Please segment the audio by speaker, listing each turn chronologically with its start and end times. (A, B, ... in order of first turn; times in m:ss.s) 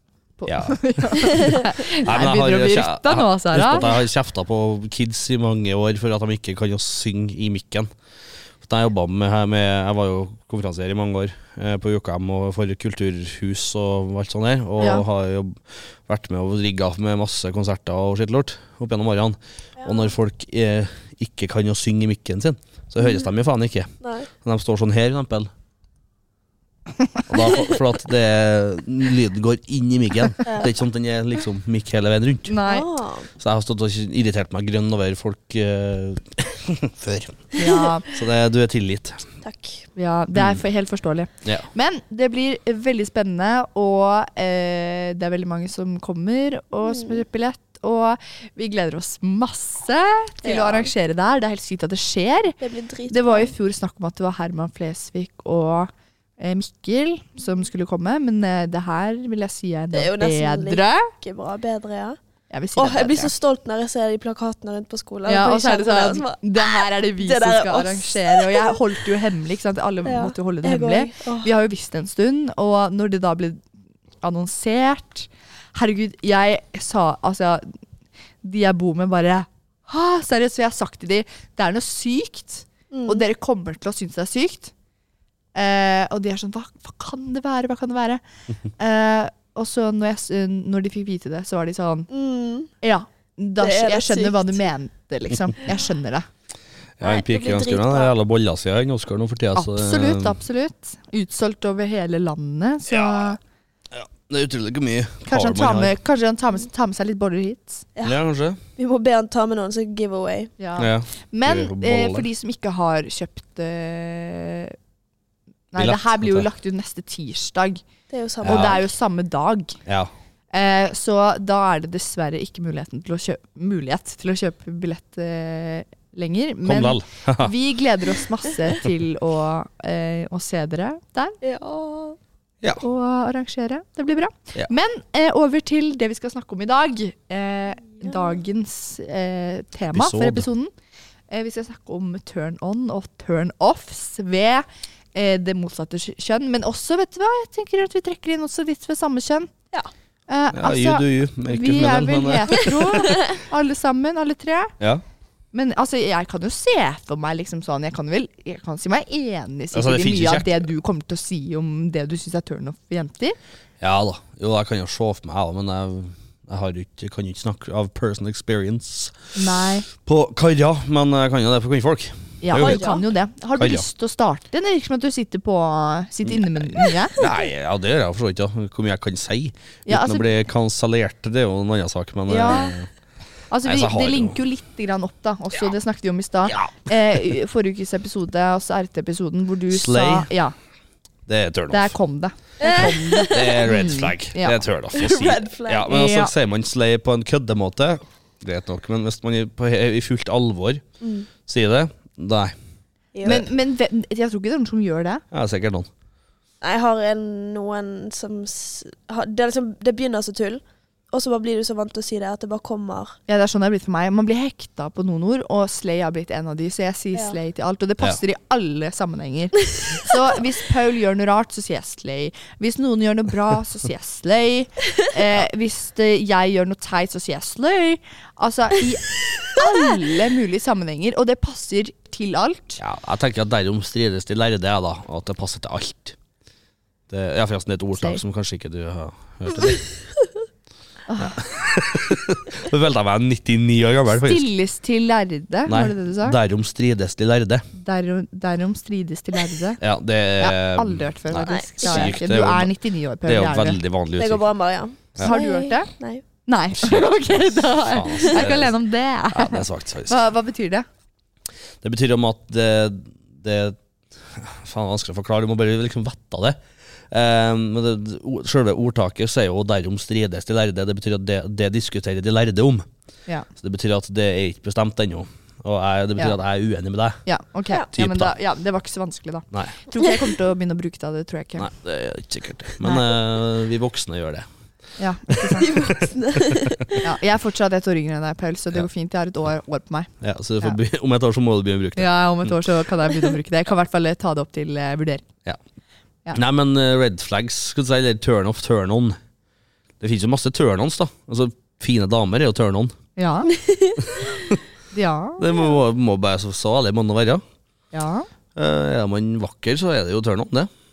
0:00.4-0:03.9 A
0:00.5-0:07.9 B
0:08.6-0:25.5 B
0:14.8-0:15.0 A
0:19.8-0:20.1 C
0:24.0-0:24.3 C
0:27.3-0:32.6 B
0:32.5-0:32.9 A
0:32.7-0:33.3 C
0:33.4-0:37.5 B
0:37.6-0:38.1 A
0:37.6-0:38.0 C
0:38.0-0:39.3 B
0:39.4-0:39.9 C
0:40.0-0:52.6 A
0:40.4-0:40.6 B
0:46.9-0:47.2 C
0:50.4-0:50.9 C
0:52.6-0:53.5 C
0:53.1-1:01.1 A
0:59.9-1:02.2 C
1:02.5-1:03.3 A
1:02.8-1:08.8 C
1:05.3-1:13.6 A
1:10.0-1:11.5 C
1:14.2-1:17.7 A
1:18.4-1:24.7 A
1:22.9-1:23.3 C
1:25.6-1:28.2 A
1:28.8-1:32.1 A
1:32.1-1:32.7 C
1:32.8-1:36.3 A
1:33.6-1:34.7 C
1:37.0-1:40.4 B
1:37.0-1:38.1 C
1:39.6-1:43.4 A
1:42.9-1:43.4 B
1:43.9-1:45.9 B
1:45.3-1:47.9 A
1:48.0-1:48.6 B
1:48.8-1:50.5 C
1:50.6-1:54.8 A
1:50.8-1:52.3 B
1:55.7-1:57.8 A
1:55.8-1:56.5 B
1:58.1-1:58.8 C
1:58.4-1:58.8 B
1:58.4-1:59.8 A
1:59.9-2:00.1 B
2:00.5-2:11.4 A
2:06.6-2:07.5 B
2:11.4-2:12.2 C
2:12.8-2:20.7 A
2:18.0-2:18.4 C
2:19.9-2:20.5 B
2:21.3-2:29.5 A
2:30.3-2:34.7 A
2:30.5-2:33.2 B
2:35.5-2:43.4 A
2:39.7-2:40.7 B
2:43.8-2:49.2 B
2:49.4-2:49.9 A
2:49.9-2:52.9 B
2:52.4-2:57.2 A
2:52.6-2:53.0 C
2:53.6-2:53.8 B
2:56.4-3:02.9 B
2:59.9-3:00.3 A
3:02.3-3:02.8 A
3:03.5-3:10.5 A
3:03.6-3:04.4 B
3:06.5-3:06.8 B
3:09.7-3:10.3 B
3:11.3-3:12.0 B
3:11.7-3:14.6 A
3:12.6-3:13.4 C
3:12.7-3:20.8 B
3:14.9-3:15.9 C
3:15.9-3:16.3 A
3:21.0-3:21.3 C
3:21.4-3:22.5 B
3:23.2-3:23.4 C
3:23.2-3:25.2 A
3:25.3-3:25.9 B
3:26.6-3:33.2 C
3:33.3-3:52.8 A
3:52.8-3:56.2 B
3:57.1-3:59.8 B
3:58.0-3:58.2 A
4:01.1-4:01.4 A
4:01.2-4:04.5 B
4:04.1-4:06.4 A
4:05.7-4:07.6 B
4:07.8-4:09.8 A
4:09.8-4:12.7 B
4:10.4-4:13.8 A
4:11.4-4:12.2 C
4:13.2-4:14.4 B
4:14.2-4:16.2 C
4:15.2-4:15.9 A
4:16.4-4:20.8 A
4:16.8-4:18.7 B
4:19.3-4:20.2 B
4:21.8-4:26.6 B
4:27.1-4:32.9 B
4:33.6-4:37.2 B
4:37.3-4:41.7 A
4:37.9-4:38.3 B
4:41.6-4:44.5 B
4:45.0-4:45.7 A
4:45.5-4:46.7 B
4:45.6-4:47.0 C
4:47.0-4:50.8 A
4:50.2-4:52.7 B
4:52.0-4:55.2 A
4:56.3-4:59.2 B
5:00.0-5:03.0 B
5:03.2-5:03.5 A
5:03.6-5:04.5 C
5:04.1-5:04.6 B
5:04.9-5:05.4 A
5:05.4-5:07.4 B
5:07.9-5:08.3 A
5:08.6-5:10.7 B